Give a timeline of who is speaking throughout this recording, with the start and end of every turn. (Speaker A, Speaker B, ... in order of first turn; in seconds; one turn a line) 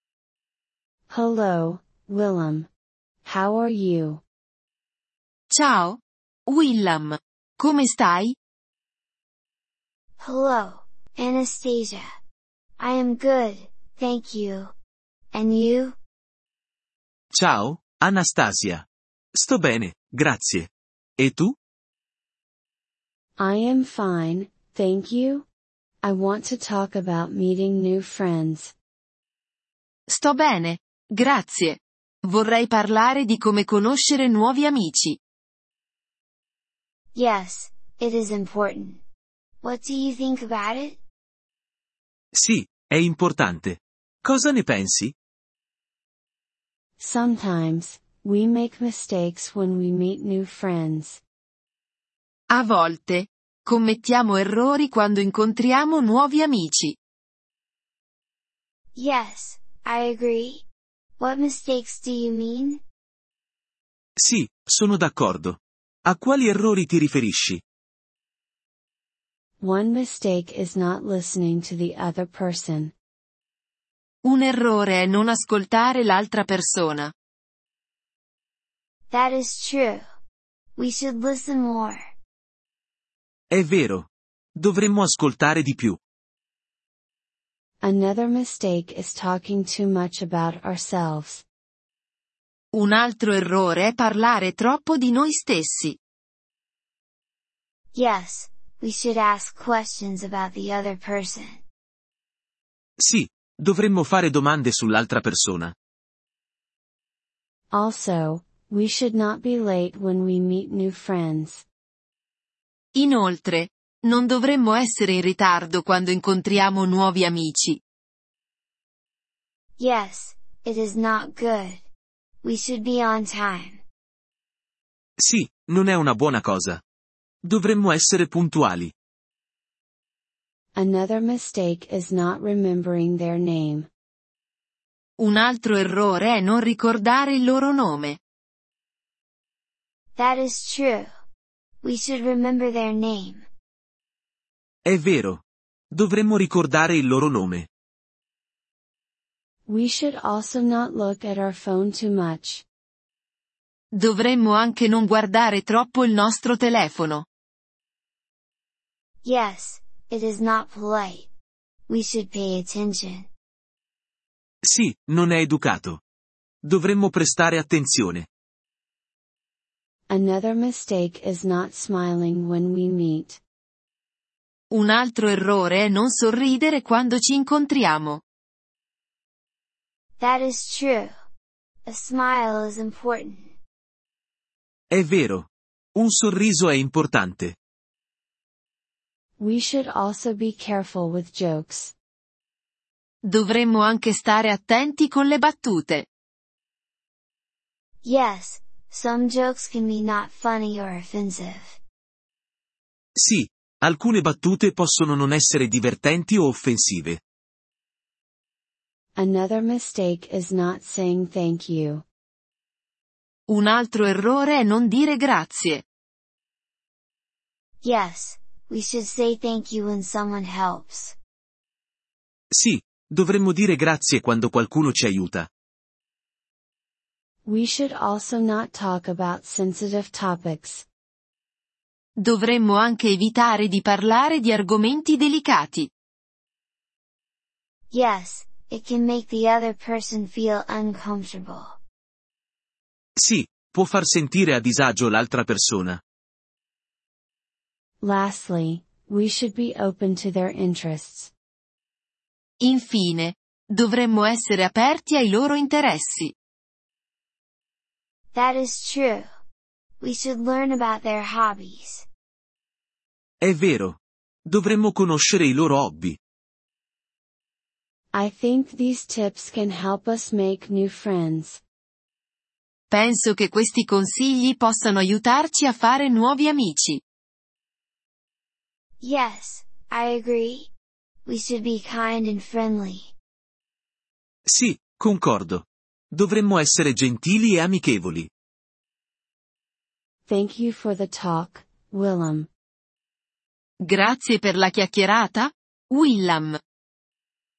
Speaker A: 1.1-2.7
Speaker A: 3.2-4.2
Speaker B: 5.5-8.3
Speaker C: 10.2-12.1
Speaker C: 12.8-14.7
Speaker C: 15.3-15.9
Speaker D: 17.3-21.6
Speaker A: 23.4-25.5
Speaker A: 26.0-28.7
Speaker B: 30.1-35.2
Speaker C: 37.1-39.0
Speaker C: 39.6-41.0
Speaker D: 42.3-45.1
Speaker A: 47.0-51.2
Speaker B: 52.5-57.0
Speaker C: 59.0-60.6
Speaker C: 61.2-62.8
Speaker D: 64.2-67.6
Speaker A: 69.6-72.9
Speaker B: 74.2-77.1
Speaker C: 79.1-80.0
Speaker C: 80.8-82.0
Speaker D: 83.5-86.0
Speaker A: 87.8-91.4
Speaker B: 92.7-96.0
Speaker C: 97.9-101.6
Speaker D: 103.0-105.8
Speaker A: 107.7-111.7
Speaker B: 112.9-117.8
Speaker C: 119.8-121.8
Speaker C: 122.4-123.8
Speaker D: 125.2-126.8
Speaker D: 127.4-128.9
Speaker A: 130.7-133.9
Speaker B: 135.2-138.2
Speaker C: 140.2-141.1
Speaker C: 141.8-143.4
Speaker D: 144.8-147.7
Speaker A: 149.7-152.7
Speaker B: 153.9-157.2
Speaker C: 159.2-161.3
Speaker C: 161.9-163.3
Speaker D: 164.6-166.0
Speaker D: 166.6-168.3
Speaker A: 170.1-173.4
Speaker B: 174.7-178.2
Speaker C: 180.2-181.1
Speaker C: 181.9-183.5
Speaker D: 184.9-187.6
Speaker A: 189.4-191.9
Speaker B: 193.2-196.1
Speaker C: 198.0-201.8
Speaker D: 203.2-207.2
Speaker A: 209.2-212.1
Speaker B: 213.5-215.8
Speaker C: 217.8-221.2
Speaker D: 222.5-225.5
Speaker A: 227.4-230.9
Speaker B: 232.2-235.9
Speaker C: 237.9-241.8
Speaker D: 243.2-246.0
Speaker A: 248.0-251.3
Speaker B: 252.6-256.3
Speaker C: 258.3-259.3
Speaker C: 260.0-262.1
Speaker D: 263.4-266.2
Speaker A: 268.1-271.6
Speaker B: 272.9-277.0
Speaker C: 279.0-280.7
Speaker C: 281.2-283.1
Speaker D: 284.5-288.3
Speaker A: 290.2-292.5
Speaker B: 293.8-296.6